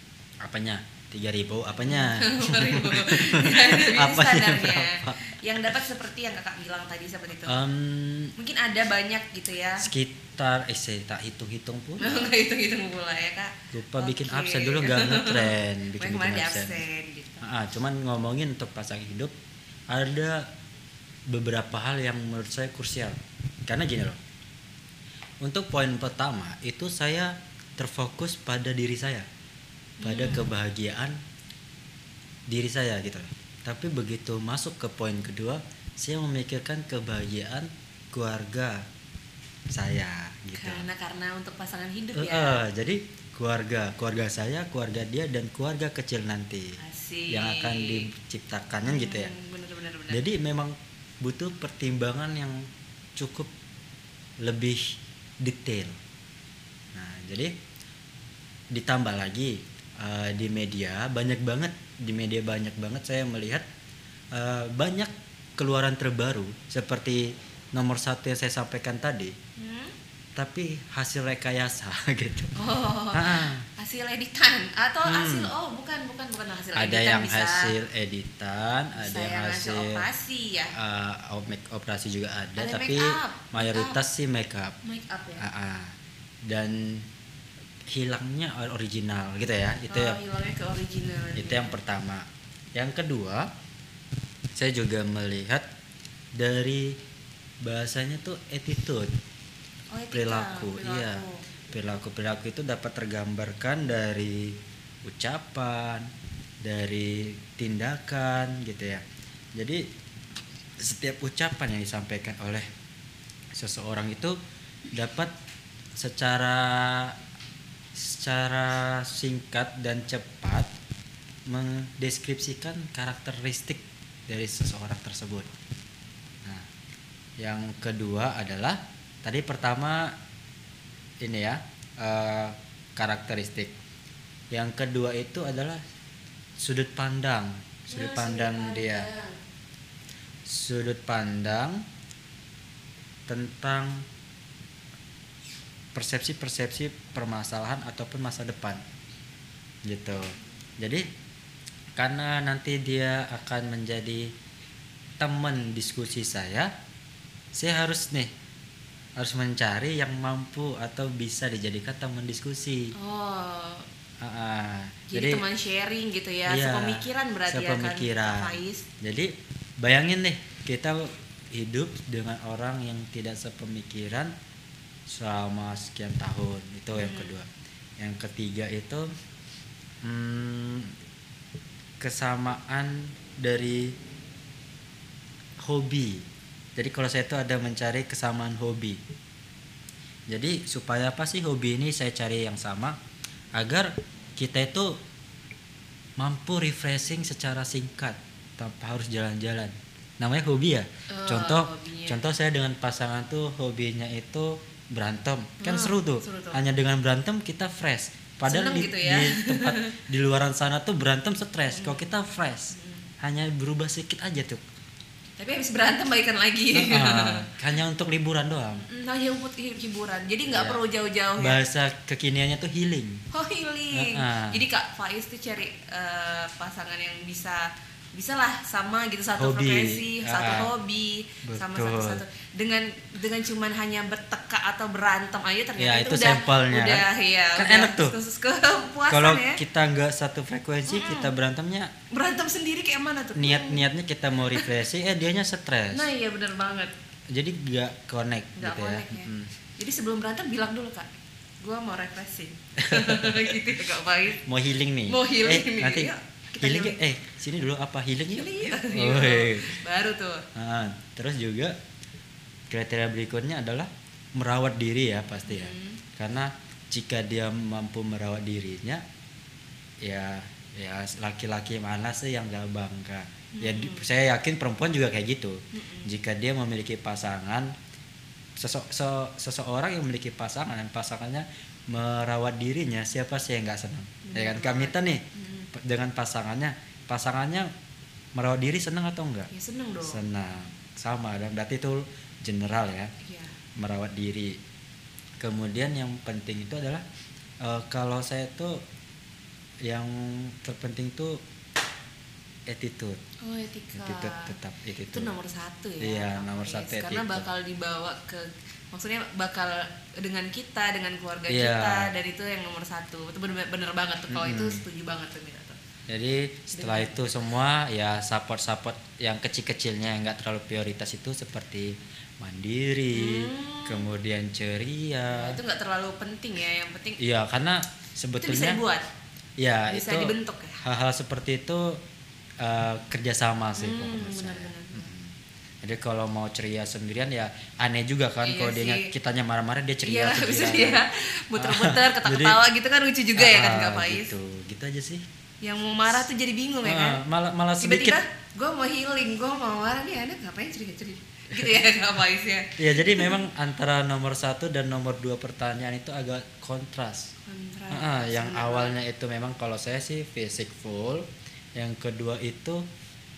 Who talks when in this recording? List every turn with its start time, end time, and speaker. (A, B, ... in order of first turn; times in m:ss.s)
0:00.4-0:05.4 A
0:01.9-0:07.6 B
0:07.4-0:08.3 A
0:08.4-0:09.9 B
0:09.8-0:12.3 A
0:12.0-0:17.4 B
0:13.7-0:16.8 A
0:17.4-0:19.3 A
0:19.9-0:20.5 A
0:21.3-0:24.2 A
0:25.4-0:29.3 A
0:30.0-0:30.5 B
0:30.0-0:31.2 A
0:32.5-0:38.8 A
0:39.7-0:40.9 A
0:40.6-0:42.6 B
0:42.1-0:46.8 A
0:46.8-0:48.0 B
0:47.3-0:49.3 A
0:48.8-0:50.2 B
0:50.1-0:53.5 A
0:54.4-0:56.0 A
0:56.9-0:57.5 A
0:58.7-1:03.6 A
1:04.3-1:09.3 A
1:09.6-1:09.9 B
1:10.4-1:12.5 A
1:12.6-1:17.7 B
1:13.1-1:13.6 A
1:15.0-1:15.5 A
1:16.7-1:20.0 A
1:19.0-1:20.7 B
1:20.7-1:24.7 A
1:22.6-1:24.0 B
1:24.8-1:25.5 B
1:25.4-1:27.1 A
1:27.9-1:30.2 A
1:29.9-1:31.8 B
1:31.3-1:33.5 A
1:34.6-1:35.6 A
1:36.4-1:37.0 A
1:37.6-1:39.1 A
1:39.9-1:41.4 B
1:40.1-1:46.1 A
1:46.6-1:49.0 A
1:49.6-1:49.8 A
1:50.8-1:52.7 A
1:53.5-1:54.4 A
1:54.9-1:55.3 A
1:56.0-1:57.2 A
1:57.9-2:00.7 A
2:01.5-2:05.5 A
2:07.4-2:10.1 A
2:11.2-2:13.7 A
2:14.5-2:15.8 A
2:16.6-2:19.1 A
2:17.9-2:19.4 B
2:20.5-2:21.8 A
2:23.3-2:24.0 A
2:25.9-2:28.8 A
2:29.9-2:31.0 A
2:32.0-2:34.3 A
2:35.2-2:36.7 A
2:37.5-2:38.3 A
2:39.2-2:42.9 A
2:43.0-2:43.9 B
2:44.2-2:45.4 A
2:45.1-2:48.8 B
2:46.5-2:54.3 A
2:55.1-2:57.5 A
2:56.9-2:57.3 B
2:58.0-2:59.1 A
3:00.0-3:01.0 A
3:02.0-3:03.9 A
3:05.6-3:06.2 A
3:06.8-3:09.0 A
3:10.3-3:13.0 A
3:13.6-3:15.0 A
3:16.2-3:34.6 A
3:21.1-3:22.2 B
3:25.6-3:26.6 B
3:28.5-3:29.9 B
3:31.7-3:32.1 B
3:32.7-3:33.0 B
3:35.4-3:37.4 B
3:36.7-3:38.9 A
3:38.8-3:41.6 B
3:40.5-3:40.8 A
3:41.4-3:43.2 A
3:43.3-3:59.6 B
3:43.9-3:44.6 A
3:49.4-3:50.7 A
3:51.4-3:52.2 A
3:55.8-3:58.2 A
3:59.1-4:01.9 A
4:00.9-4:01.3 B
4:02.1-4:03.8 B
4:03.4-4:06.1 A
4:05.9-4:06.9 B
4:07.3-4:09.5 A
4:08.6-4:11.1 B
4:11.6-4:14.4 B
4:12.8-4:13.6 A
4:14.4-4:19.8 A
4:15.1-4:17.0 B
4:18.3-4:20.4 B
4:20.5-4:21.8 A
4:22.7-4:29.0 A
4:25.5-4:26.0 B
4:30.0-4:37.7 A
4:33.5-4:34.0 B
4:35.7-4:36.1 B
4:38.6-4:47.7 A
4:44.2-4:45.7 B
4:48.4-4:49.5 A
4:49.5-4:50.2 B
4:50.0-4:53.1 A
4:53.2-4:53.5 B
4:53.8-4:54.6 A
4:55.4-4:57.0 A
4:57.6-4:58.8 A
4:59.8-5:01.4 A
5:02.7-5:03.2 A
5:03.4-5:04.5 B
5:04.0-5:05.3 A
5:05.1-5:15.8 B
5:06.0-5:07.5 A
5:11.5-5:12.1 A
5:14.3-5:14.8 A
5:16.1-5:25.6 A
5:16.7-5:17.2 B
5:23.1-5:24.0 B
5:25.3-5:27.2 B
5:27.2-5:28.8 A
5:28.4-5:29.0 B
5:29.6-5:32.0 A
5:29.9-5:30.8 B
5:32.6-5:41.0 A
5:33.8-5:35.1 B
5:38.4-5:39.1 B
5:40.0-5:44.3 B
5:41.6-5:42.6 A
5:43.4-5:45.2 A
5:45.6-5:47.2 B
5:46.8-5:48.2 A
5:47.8-5:53.4 B
5:52.8-5:57.3 A
5:57.4-5:59.0 B
5:57.9-6:02.8 A